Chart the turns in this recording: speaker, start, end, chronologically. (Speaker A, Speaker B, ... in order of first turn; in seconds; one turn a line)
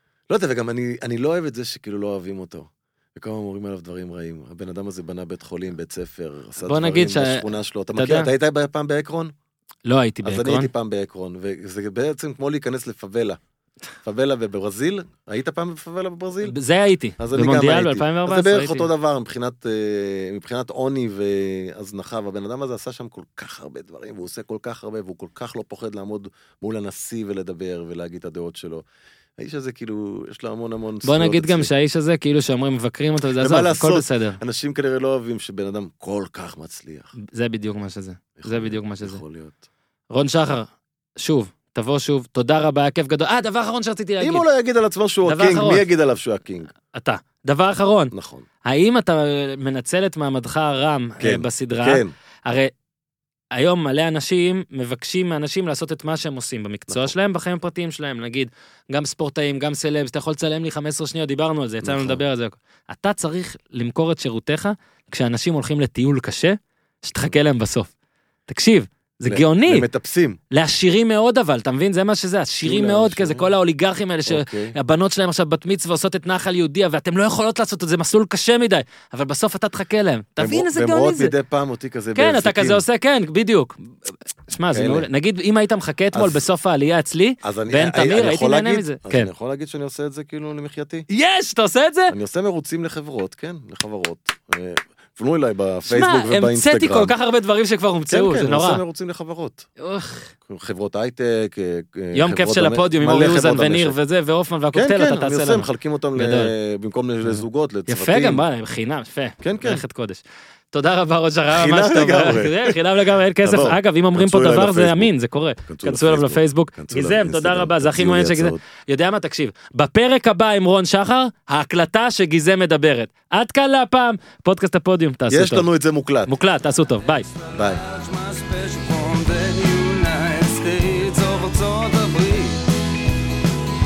Speaker A: 0.3-9.3
Speaker B: 6.6-8.3
Speaker B: 9.8-10.7
Speaker A: 10.2-13.4
Speaker A: 14.0-16.5
Speaker B: 16.4-18.9
Speaker A: 17.2-28.8
Speaker A: 29.4-31.7
Speaker B: 31.0-34.4
Speaker A: 33.4-37.1
Speaker B: 37.2-39.2
Speaker A: 38.4-39.6
Speaker B: 40.1-44.5
Speaker A: 44.2-46.7
Speaker B: 45.2-45.8
Speaker B: 46.9-48.1
Speaker A: 48.1-48.5
Speaker B: 48.6-52.7
Speaker A: 51.2-52.1
Speaker B: 53.5-67.9
Speaker A: 56.9-57.1
Speaker A: 61.8-62.2
Speaker B: 68.5-69.9
Speaker A: 69.2-70.4
Speaker B: 70.5-81.3
Speaker A: 72.6-73.5
Speaker A: 74.3-74.7
Speaker A: 80.4-82.8
Speaker B: 82.1-89.3
Speaker A: 84.7-85.1
Speaker A: 86.1-86.5
Speaker A: 87.4-91.1
Speaker B: 91.1-92.1
Speaker A: 92.1-97.1
Speaker B: 95.8-98.8
Speaker A: 98.1-99.7
Speaker B: 99.8-100.3
Speaker A: 100.5-104.0
Speaker B: 102.1-106.5
Speaker A: 104.7-108.4
Speaker B: 107.2-125.7
Speaker A: 109.4-109.8
Speaker A: 111.5-112.8
Speaker A: 113.4-115.1
Speaker A: 115.6-118.6
Speaker A: 125.3-126.3
Speaker B: 126.3-127.3
Speaker C: 127.4-132.7
Speaker A: 127.5-127.8